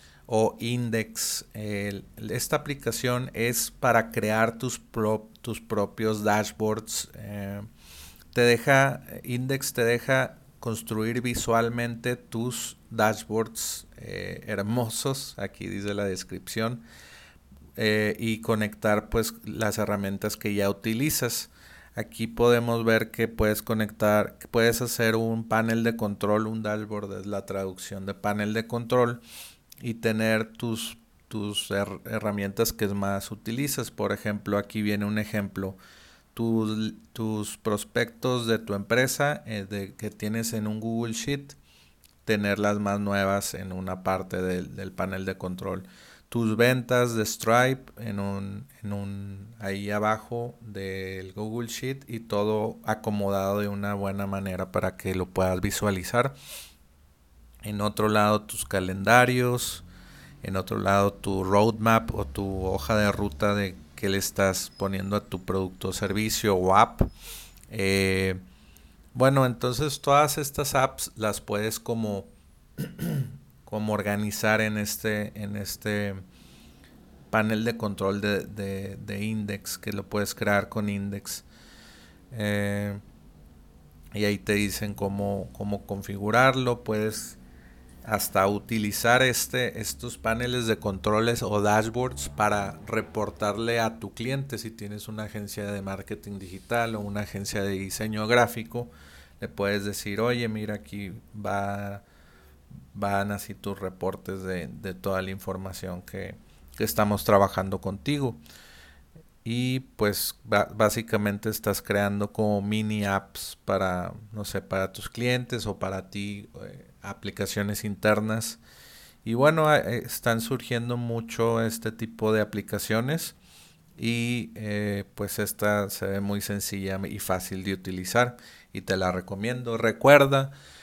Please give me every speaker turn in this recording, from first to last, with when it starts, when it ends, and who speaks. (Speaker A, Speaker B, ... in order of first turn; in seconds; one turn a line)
Speaker A: 0.3-7.7
Speaker A: 8.3-16.8
Speaker A: 17.8-29.2
Speaker A: 29.8-35.8
Speaker A: 36.3-41.6
Speaker A: 42.2-56.3
Speaker A: 57.6-59.9
Speaker A: 60.4-67.1
Speaker A: 67.7-68.4
Speaker A: 69.1-76.2
Speaker A: 77.3-81.5
Speaker A: 82.3-83.0
Speaker A: 84.1-87.4
Speaker A: 88.0-102.0
Speaker A: 102.9-108.4
Speaker A: 109.4-118.6
Speaker A: 119.2-123.3
Speaker A: 124.0-130.5